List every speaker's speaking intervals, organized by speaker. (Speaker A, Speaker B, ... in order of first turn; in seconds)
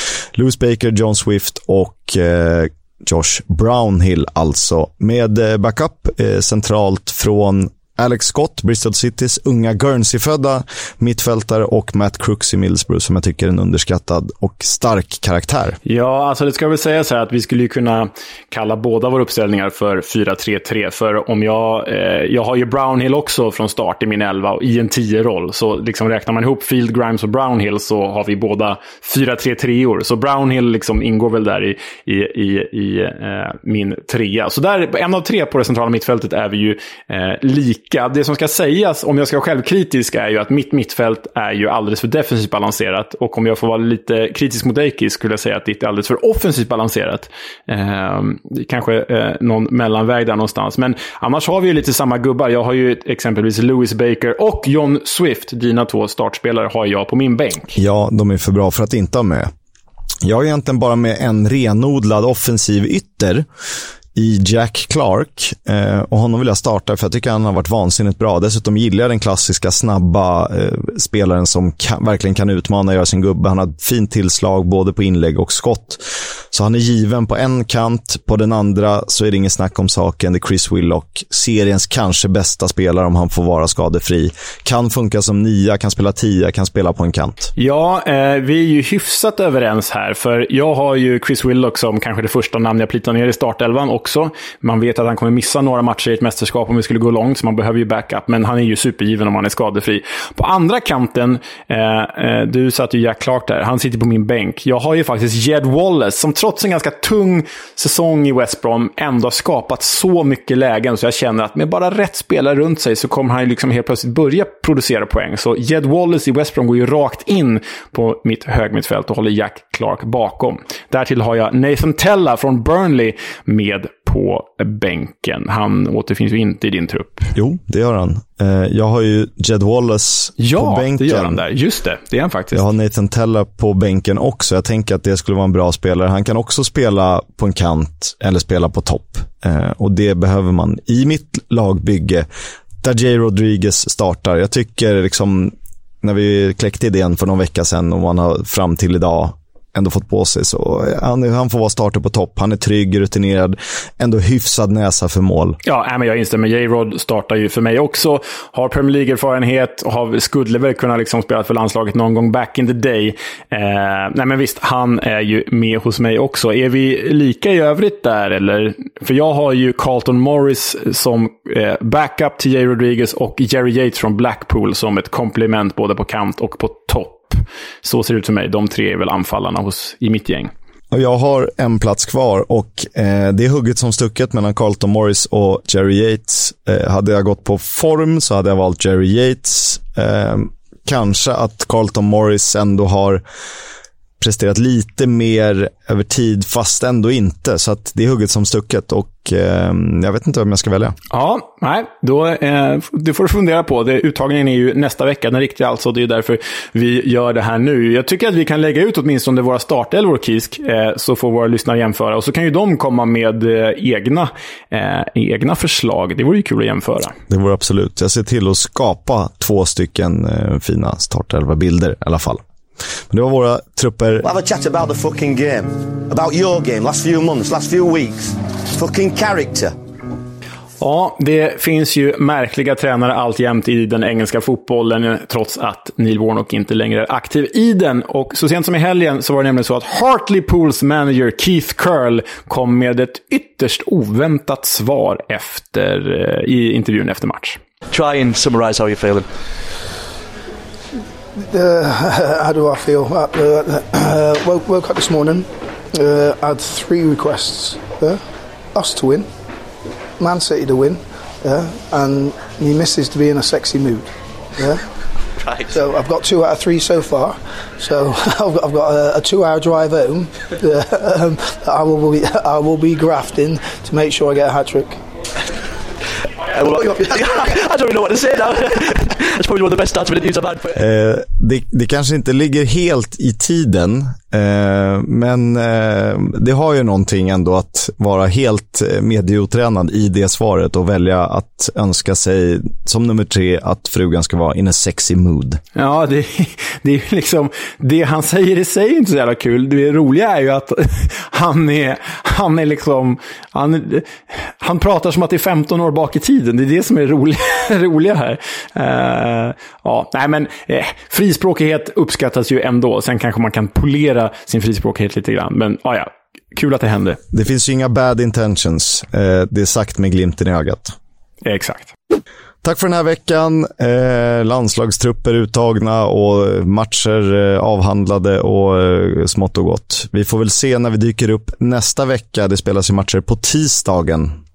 Speaker A: 0.3-15.8, 57.8-59.5, 60.2-63.4, 64.1-87.5, 127.3-131.4, 132.5-142.2, 142.8-155.6, 180.9-193.2, 194.2-200.9, 217.3-222.4, 223.1-224.3, 280.7-295.6, 317.3-320.9, 322.6-334.4
Speaker B: 15.8-57.7, 87.6-127.3, 130.4-132.6, 155.6-180.5, 201.1-217.2, 230.8-247.6, 295.7-317.2, 321.4-321.9
Speaker C: 224.2-229.7
Speaker D: 247.9-249.2, 276.5-280.8
Speaker E: 251.5-258.2, 258.7-259.3, 260.2-264.1, 265.6-275.0